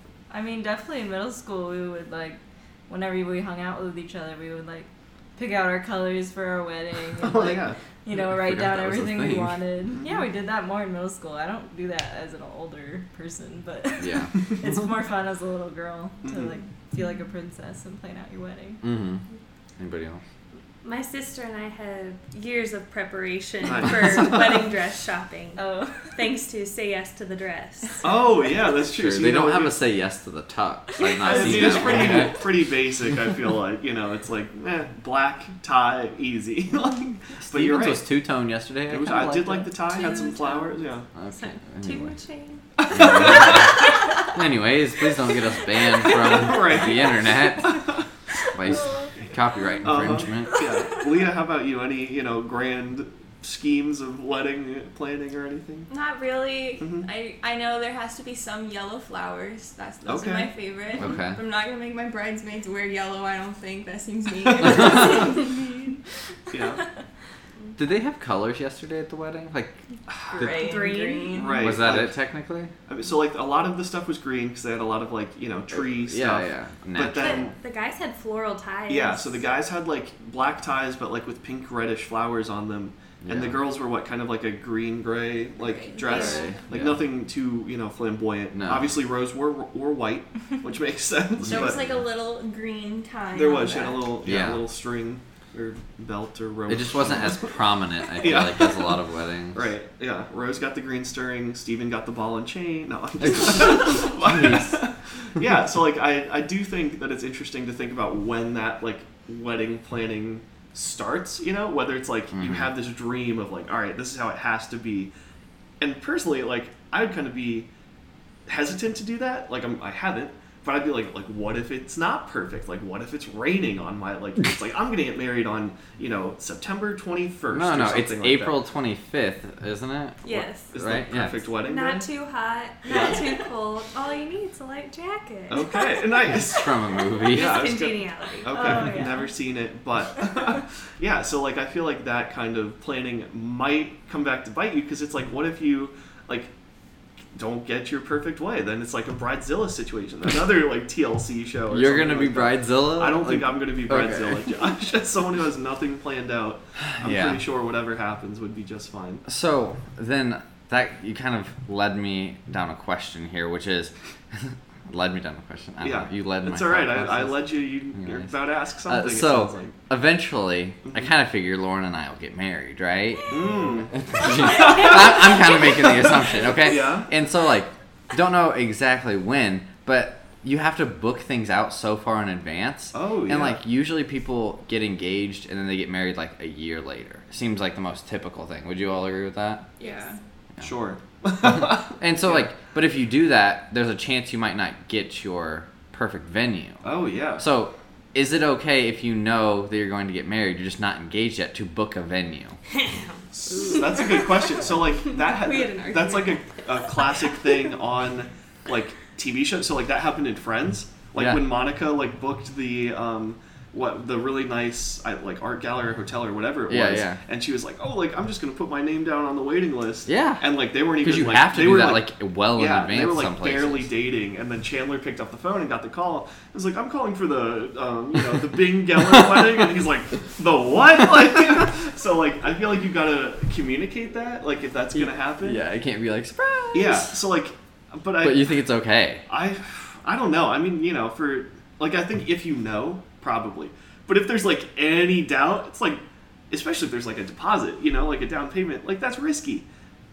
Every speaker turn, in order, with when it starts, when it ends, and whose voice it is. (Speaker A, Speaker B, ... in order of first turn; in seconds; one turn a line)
Speaker A: 0.3-18.8
Speaker B: 7.2-7.8
Speaker C: 8.1-9.6
Speaker B: 9.9-10.2
Speaker C: 14.0-14.7
Speaker B: 16.2-16.6
Speaker C: 18.8-19.2
Speaker C: 19.8-20.2
Speaker D: 20.8-28.0
Speaker B: 23.6-24.5
Speaker A: 25.6-26.1
Speaker B: 28.0-29.8
Speaker C: 28.9-32.4
Speaker B: 31.2-38.0
Speaker C: 37.4-39.7
Speaker B: 38.9-41.1
Speaker D: 39.9-40.7
Speaker C: 41.1-42.1
Speaker D: 41.3-42.6
Speaker B: 42.8-43.7
Speaker C: 42.9-47.9
Speaker B: 46.1-48.0
Speaker C: 48.5-50.5
Speaker B: 49.8-55.9
Speaker E: 55.9-65.9
Speaker B: 56.8-57.1
Speaker B: 60.0-60.5
Speaker C: 61.0-61.4
Speaker C: 64.8-65.0
Speaker B: 66.5-66.8
Speaker C: 67.8-69.8
Speaker B: 70.1-70.5
Speaker E: 70.3-71.7
Speaker D: 70.5-71.5
Speaker B: 71.3-72.2
Speaker C: 71.6-72.7
Speaker B: 72.9-77.5
Speaker C: 75.7-77.5
Speaker D: 77.1-79.4
Speaker B: 78.9-91.8
Speaker C: 83.2-83.6
Speaker E: 85.6-86.6
Speaker D: 86.0-86.5
Speaker C: 86.2-87.0
Speaker C: 88.5-88.9
Speaker C: 91.4-92.0
Speaker E: 91.5-94.2
Speaker B: 93.3-97.6
Speaker C: 94.2-94.6
Speaker C: 96.7-99.7
Speaker B: 98.2-99.0
Speaker B: 99.5-115.1
Speaker C: 103.2-104.8
Speaker C: 112.3-112.7
Speaker B: 115.8-117.7
Speaker B: 118.5-128.6
Speaker C: 127.5-131.4
Speaker D: 130.2-130.7
Speaker B: 130.6-132.1
Speaker D: 131.6-136.2
Speaker B: 132.8-133.2
Speaker B: 135.5-136.7
Speaker C: 136.3-137.7
Speaker D: 137.2-139.1
Speaker B: 137.2-146.5
Speaker A: 138.5-139.2
Speaker B: 147.3-159.2
Speaker C: 151.7-154.5
Speaker C: 156.9-157.4
Speaker C: 159.2-168.3
Speaker B: 165.8-169.7
Speaker C: 168.8-189.7
Speaker B: 170.8-171.1
Speaker B: 173.3-177.1
Speaker B: 182.9-183.6
Speaker E: 189.8-190.2
Speaker B: 190.6-192.5
Speaker C: 191.4-196.8
Speaker B: 196.8-197.4
Speaker C: 197.4-202.6
Speaker D: 202.8-204.1
Speaker B: 203.3-235.6
Speaker D: 205.3-206.4
Speaker C: 211.1-211.5
Speaker C: 216.7-217.2
Speaker C: 220.1-223.9
Speaker C: 229.0-229.5
Speaker C: 234.9-237.1
Speaker B: 236.7-238.5
Speaker C: 238.2-239.2
Speaker B: 239.3-249.7